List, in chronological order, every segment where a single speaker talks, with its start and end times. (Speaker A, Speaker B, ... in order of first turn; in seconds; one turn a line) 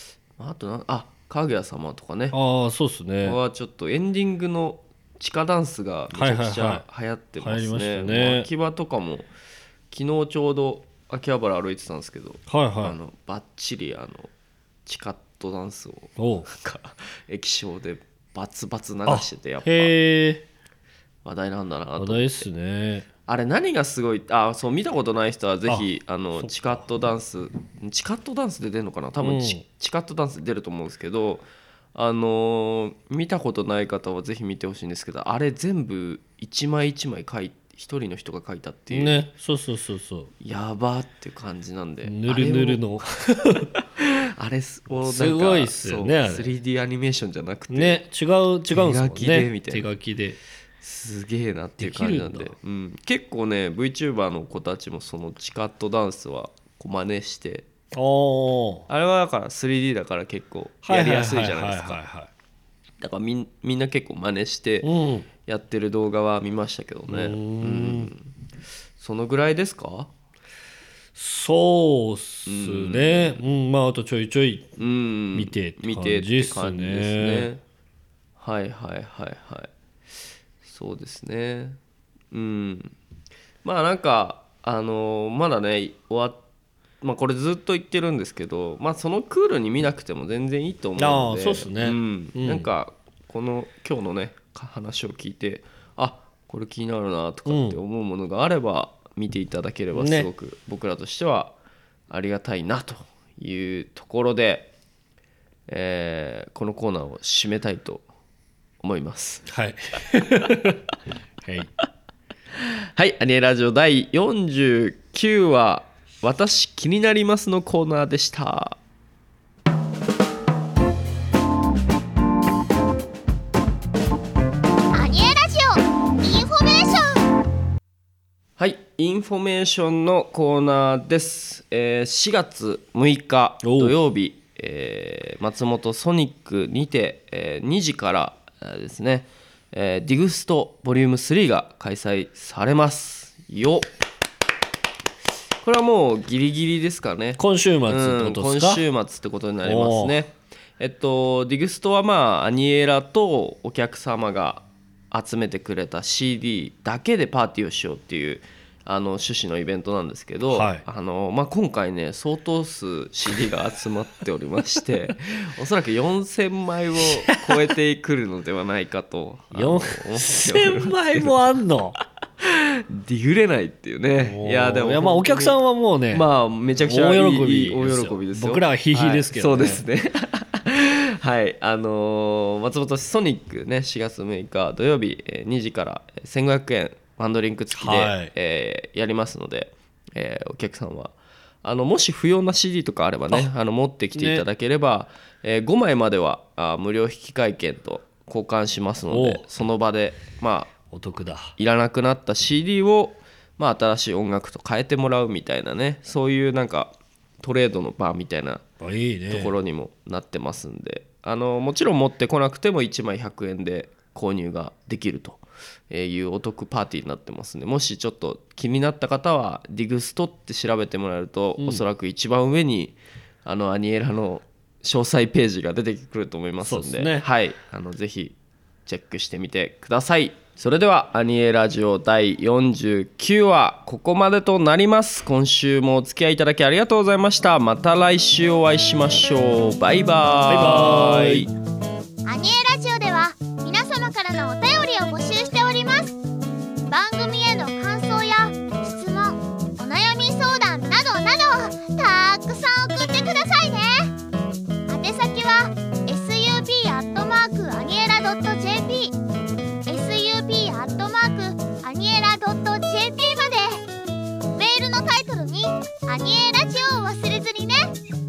Speaker A: 0.4-2.4
Speaker B: 2.3-3.4
Speaker A: 3.2-9.3
Speaker B: 6.1-6.8
Speaker B: 7.4-8.5
Speaker A: 9.9-14.3
Speaker B: 12.5-13.0
Speaker A: 14.9-19.9
Speaker B: 16.2-16.5
Speaker B: 19.1-20.4
Speaker A: 21.2-22.5
Speaker B: 22.0-23.1
Speaker A: 23.3-39.2
Speaker B: 25.7-26.9
Speaker B: 29.2-29.6
Speaker B: 38.9-40.3
Speaker A: 40.4-42.8
Speaker B: 42.0-43.7
Speaker A: 44.0-48.0
Speaker B: 45.0-46.5
Speaker B: 47.7-50.4
Speaker A: 48.7-49.9
Speaker A: 50.8-57.7
Speaker B: 51.8-52.5
Speaker B: 57.9-58.9
Speaker A: 58.9-62.0
Speaker B: 60.9-62.3
Speaker A: 63.0-64.9
Speaker B: 64.8-65.3
Speaker A: 65.5-68.3
Speaker B: 67.1-68.1
Speaker A: 69.0-70.1
Speaker B: 71.2-74.7
Speaker A: 72.5-73.4
Speaker A: 74.8-77.6
Speaker B: 75.3-77.5
Speaker A: 78.4-79.7
Speaker A: 80.6-81.8
Speaker A: 82.3-82.9
Speaker A: 83.6-86.4
Speaker A: 87.0-101.5
Speaker B: 91.0-92.7
Speaker B: 97.5-97.8
Speaker B: 99.9-100.3
Speaker A: 102.1-104.7
Speaker A: 105.7-108.0
Speaker A: 108.8-109.5
Speaker B: 109.5-110.8
Speaker B: 111.4-111.7
Speaker A: 112.6-118.8
Speaker C: 124.9-127.2
Speaker A: 128.6-143.9
Speaker B: 133.6-134.0
Speaker A: 145.6-171.5
Speaker B: 147.4-148.8
Speaker B: 149.6-150.2
Speaker B: 160.5-160.8
Speaker B: 167.0-167.7
Speaker B: 169.5-172.0
Speaker A: 172.4-175.6
Speaker B: 174.2-176.3
Speaker A: 176.1-200.7
Speaker B: 176.8-179.8
Speaker B: 187.7-188.3
Speaker B: 194.2-194.4
Speaker B: 199.1-199.4
Speaker B: 200.9-201.6
Speaker A: 201.6-208.6
Speaker B: 208.8-209.5
Speaker A: 209.3-228.3
Speaker B: 221.6-221.8
Speaker B: 226.6-227.3
Speaker A: 228.9-241.5
Speaker B: 240.4-241.5
Speaker C: 242.2-246.2
Speaker C: 246.9-254.2
Speaker C: 254.9-259.2
Speaker C: 259.9-263.9
Speaker C: 264.6-268.0